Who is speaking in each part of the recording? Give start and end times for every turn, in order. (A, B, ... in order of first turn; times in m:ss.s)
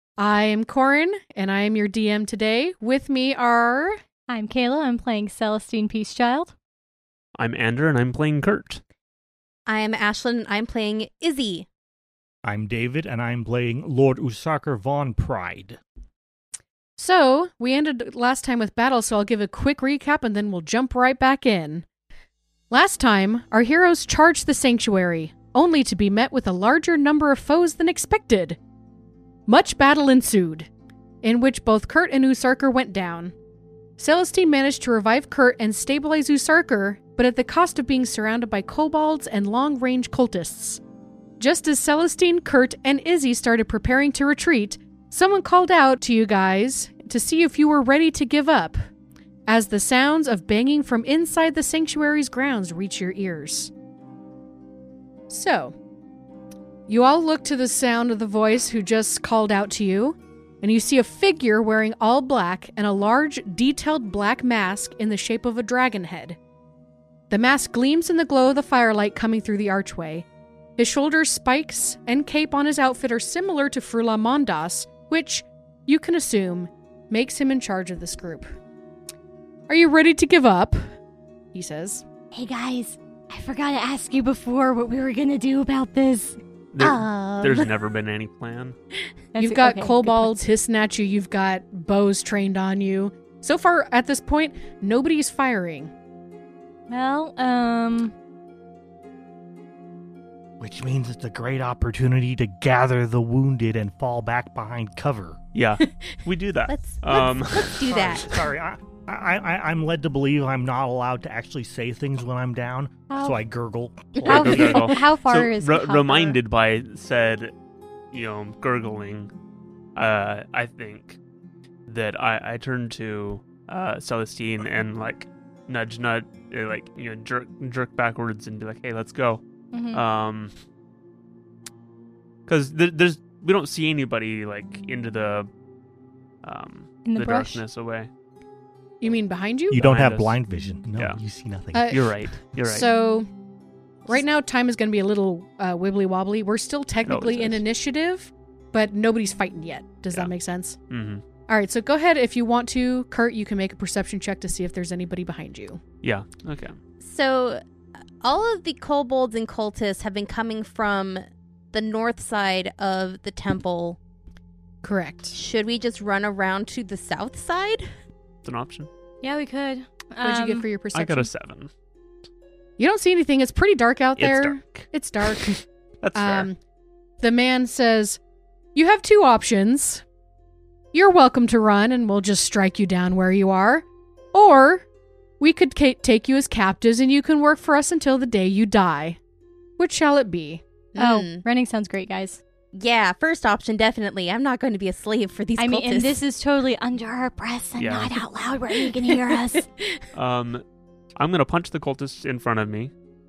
0:00.2-0:04.0 A
0:04.3-0:06.5 B
0:07.4-0:08.8 C
0:09.7-0:11.7 D
0:12.4-0:15.8 E
0:17.0-0:21.8 A
0:22.7-0:28.6 A
0:29.5-0:30.7 A
0:31.2-0:33.3 A
0:34.0-0:40.8 A
0:41.4-0:48.8 A
0:49.5-0:53.7 A
0:55.3-0:55.7 A
0:56.9-1:06.4 A
1:07.3-1:10.2 A
1:10.8-1:18.5 A
1:19.7-1:20.9 A
1:21.5-1:22.0 A
1:22.3-1:26.4 B
1:26.7-1:28.8 C
1:26.8-1:27.7 D
1:29.3-1:30.4 B
1:29.4-1:35.9 A
1:36.9-1:38.1 B
1:40.6-1:45.4 E
1:45.5-1:47.8 C
1:46.7-1:48.4 D
1:47.8-1:54.8 E
1:53.1-1:53.4 B
1:54.2-1:57.5 C
1:54.2-1:56.4 B
1:54.3-1:54.7 D
1:58.1-1:59.3 C
2:00.0-2:01.2 C
2:01.9-2:10.5 C
2:09.7-2:10.0 B
2:12.5-2:15.5 C
2:16.4-2:18.1 C
2:17.0-2:17.6 B
2:19.0-2:19.8 A
2:19.7-2:21.9 E
2:19.7-2:20.4 C
2:21.7-2:23.3 A
2:21.9-2:22.9 C
2:24.1-2:30.8 A
2:27.0-2:27.6 C
2:30.9-2:31.2 C
2:31.5-2:35.8 A
2:36.0-2:36.8 C
2:37.0-2:37.6 D
2:38.2-2:44.0 D
2:44.8-2:45.3 A
2:45.3-2:47.9 D
2:48.4-2:48.9 C
2:49.2-2:50.6 B
2:50.2-2:51.3 A
2:50.9-2:51.7 C
2:52.8-2:55.6 A
2:54.2-2:56.5 C
2:56.1-2:56.6 A
2:57.2-2:58.2 A
2:58.7-3:00.0 A
3:00.9-3:04.8 A
3:05.4-3:09.2 A
3:09.8-3:10.6 A
3:10.9-3:11.4 D
3:11.0-3:12.4 B
3:12.7-3:16.2 D
3:15.6-3:19.6 B
3:17.8-3:18.2 C
3:20.1-3:20.6 C
3:21.2-3:22.9 C